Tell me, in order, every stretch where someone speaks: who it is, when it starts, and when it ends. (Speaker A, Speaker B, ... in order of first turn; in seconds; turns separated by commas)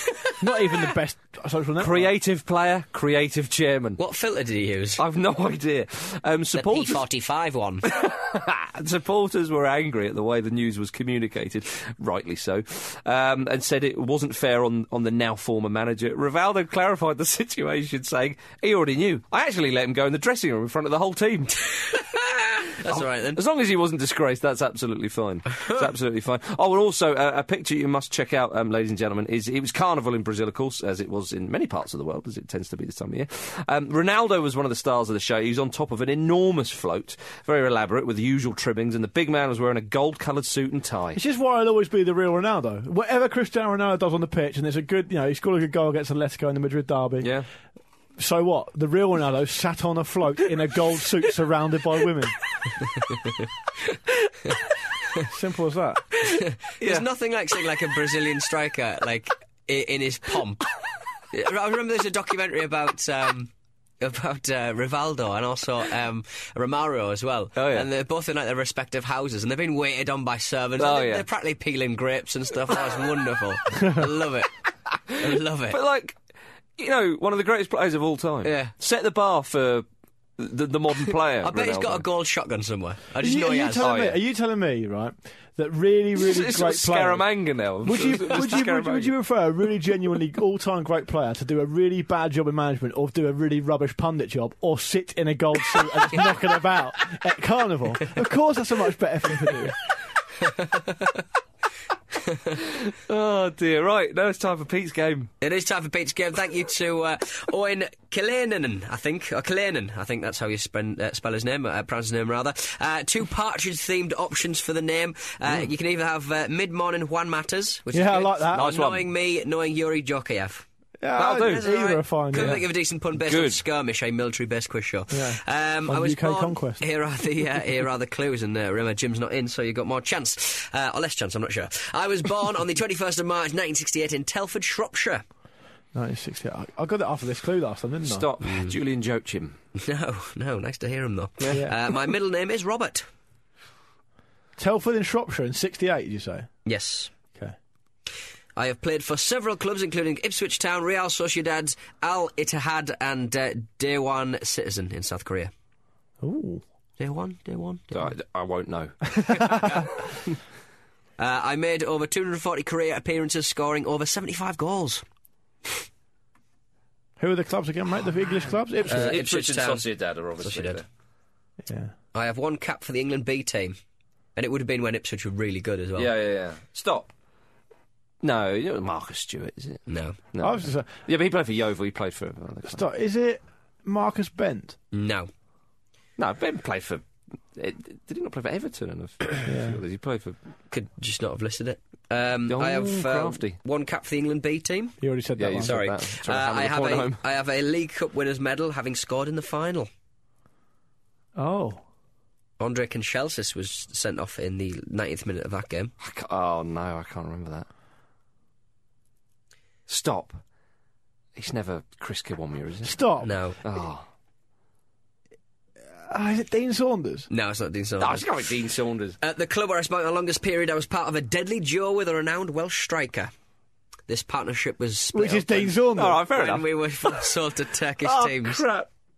Speaker A: 0.4-2.1, Speaker B: 1.8-4.0, Speaker C: 4.0-5.0, Speaker B: 5.0-7.0, Speaker C: 6.5-7.9, Speaker B: 7.8-21.7, Speaker C: 21.7-23.4, Speaker B: 22.9-41.2, Speaker A: 41.1-47.3, Speaker A: 48.2-52.4, Speaker A: 55.2-56.0, Speaker C: 56.2-60.6, Speaker B: 56.8-57.0, Speaker C: 61.3-74.5, Speaker B: 67.5-67.9, Speaker B: 70.8-71.2, Speaker B: 75.1-76.2, Speaker C: 75.2-75.8, Speaker B: 76.8-79.8, Speaker C: 78.4-78.7, Speaker B: 80.4-82.0, Speaker C: 81.4-83.9, Speaker A: 83.2-87.2, Speaker B: 83.8-84.2, Speaker B: 86.2-89.1, Speaker A: 87.8-99.8, Speaker C: 100.4-101.2, Speaker B: 102.6-105.3, Speaker C: 105.4-135.2, Speaker A: 117.9-118.7, Speaker B: 118.5-119.1, Speaker A: 121.0-122.6, Speaker B: 121.1-121.7, Speaker B: 122.3-123.6, Speaker A: 125.1-126.8, Speaker A: 135.9-138.2, Speaker B: 138.0-139.6, Speaker C: 138.4-138.7, Speaker C: 139.7-143.1, Speaker A: 144.6-146.5, Speaker C: 146.6-147.1, Speaker C: 148.5-155.5, Speaker A: 156.2-156.6, Speaker C: 157.0-158.1, Speaker B: 157.9-159.9, Speaker C: 161.2-165.0, Speaker A: 167.2-169.2, Speaker B: 168.8-170.8, Speaker C: 168.8-169.8, Speaker C: 170.4-170.8, Speaker A: 171.6-171.9, Speaker C: 172.1-173.8, Speaker C: 174.3-176.1, Speaker B: 175.9-177.1, Speaker B: 178.2-182.8, Speaker C: 179.9-180.2, Speaker A: 180.4-180.9, Speaker A: 182.7-184.8, Speaker C: 184.9-185.3, Speaker B: 186.2-187.0, Speaker B: 187.5-190.3, Speaker A: 189.4-189.8, Speaker C: 190.7-195.0, Speaker B: 192.5-193.6, Speaker A: 195.0-195.8, Speaker B: 195.4-197.2, Speaker C: 195.6-199.9, Speaker A: 201.3-201.8, Speaker C: 202.6-205.9, Speaker B: 206.0-207.7, Speaker B: 209.9-210.4, Speaker B: 211.3-213.0, Speaker A: 212.8-213.3, Speaker C: 213.2-213.6, Speaker B: 213.6-214.0, Speaker A: 216.0-217.3, Speaker C: 217.3-218.3, Speaker B: 218.0-219.2, Speaker C: 219.2-223.3, Speaker C: 224.1-228.6, Speaker A: 225.1-226.2, Speaker B: 225.9-227.3, Speaker B: 228.0-228.9